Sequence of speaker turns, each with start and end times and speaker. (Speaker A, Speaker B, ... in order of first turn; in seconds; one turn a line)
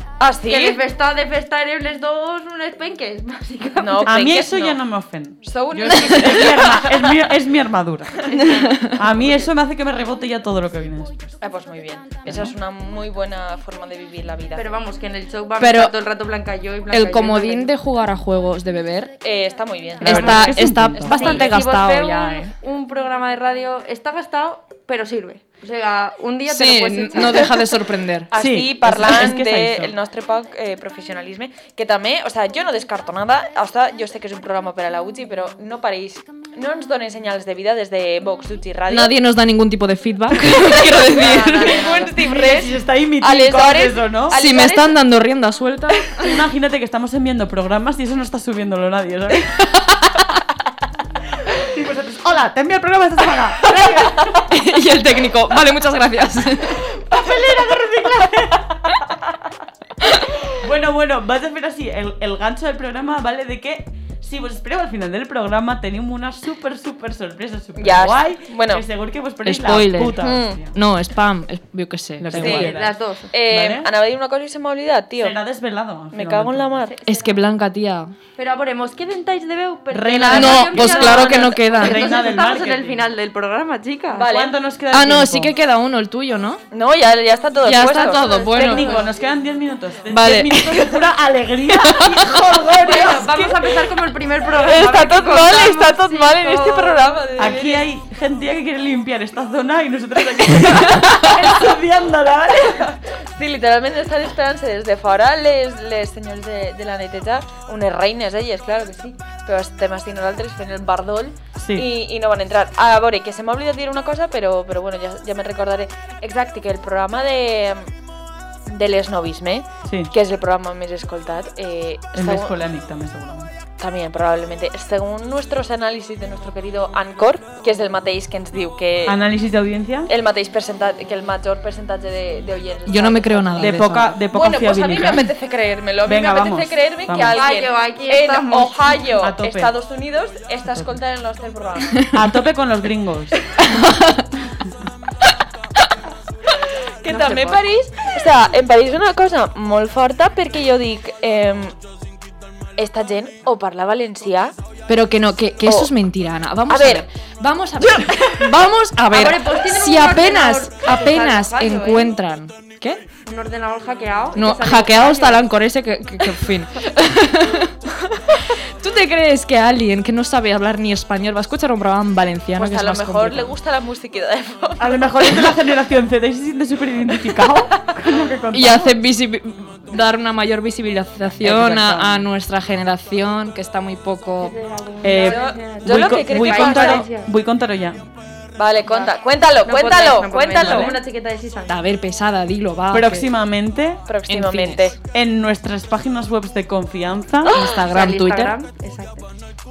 Speaker A: 0.2-0.8
Speaker B: 0.4-4.2
Speaker A: 3.8-4.8
Speaker C: 4.0-8.2
Speaker A: 5.4-7.1
Speaker B: 8.3-9.5
Speaker D: 8.4-9.0
Speaker C: 8.8-11.3
Speaker A: 11.4-14.7
Speaker C: 12.2-12.5
Speaker B: 14.6-17.7
Speaker D: 15.6-15.9
Speaker D: 16.9-19.1
Speaker A: 19.2-20.6
Speaker C: 20.0-21.4
Speaker D: 20.0-22.5
Speaker B: 21.1-27.7
Speaker A: 21.1-21.4
Speaker D: 26.5-28.3
Speaker A: 28.3-39.1
Speaker C: 28.3-29.9
Speaker D: 38.9-42.0
Speaker A: 40.4-45.0
Speaker B: 40.7-42.1
Speaker C: 42.0-44.4
Speaker D: 44.3-46.4
Speaker C: 46.1-49.6
Speaker D: 49.6-50.2
Speaker C: 51.5-54.5
Speaker D: 54.5-56.8
Speaker C: 56.7-59.0
Speaker D: 60.0-60.3
Speaker C: 60.4-70.8
Speaker A: 67.8-68.8
Speaker D: 69.4-72.8
Speaker A: 70.2-70.6
Speaker C: 72.2-73.9
Speaker A: 72.3-72.7
Speaker B: 72.6-73.3
Speaker A: 73.3-75.4
Speaker C: 75.2-76.9
Speaker A: 76.1-76.9
Speaker B: 76.8-77.4
Speaker D: 77.0-78.1
Speaker B: 78.3-84.3
Speaker C: 79.9-83.1
Speaker D: 80.3-82.2
Speaker A: 84.1-84.6
Speaker C: 84.2-85.5
Speaker D: 84.9-86.6
Speaker A: 86.7-89.1
Speaker D: 87.6-89.1
Speaker B: 88.1-89.1
Speaker C: 88.5-93.8
Speaker D: 90.1-90.9
Speaker D: 91.8-92.3
Speaker B: 92.8-97.2
Speaker A: 94.5-97.8
Speaker C: 97.4-102.9
Speaker A: 102.6-117.9
Speaker C: 111.6-111.9
Speaker A: 118.7-122.5
Speaker C: 119.8-120.1
Speaker C: 122.1-123.5
Speaker A: 123.8-129.2
Speaker C: 129.1-130.1
Speaker A: 130.1-133.8
Speaker D: 132.8-134.2
Speaker C: 133.6-135.3
Speaker A: 134.3-142.1
Speaker C: 136.0-137.4
Speaker B: 137.3-139.1
Speaker C: 139.2-139.7
Speaker C: 142.1-143.4
Speaker D: 143.6-144.2
Speaker A: 147.0-151.8
Speaker B: 147.1-147.6
Speaker A: 152.8-154.6
Speaker D: 154.9-163.0
Speaker A: 155.6-155.9
Speaker A: 156.7-157.0
Speaker A: 157.9-158.3
Speaker B: 159.1-162.2
Speaker B: 163.2-165.4
Speaker D: 164.3-167.7
Speaker D: 168.4-173.5
Speaker A: 172.6-175.5
Speaker C: 174.8-178.9
Speaker A: 177.3-177.9
Speaker D: 178.5-184.6
Speaker C: 181.4-182.2
Speaker B: 184.4-187.3
Speaker C: 185.0-188.0
Speaker A: 185.2-187.1
Speaker A: 188.5-191.0
Speaker B: 188.8-191.8
Speaker C: 190.5-190.9
Speaker D: 191.7-193.3
Speaker C: 192.9-194.0
Speaker A: 194.1-195.0
Speaker D: 194.3-194.9
Speaker C: 195.1-197.5
Speaker D: 197.4-198.6
Speaker B: 197.5-199.3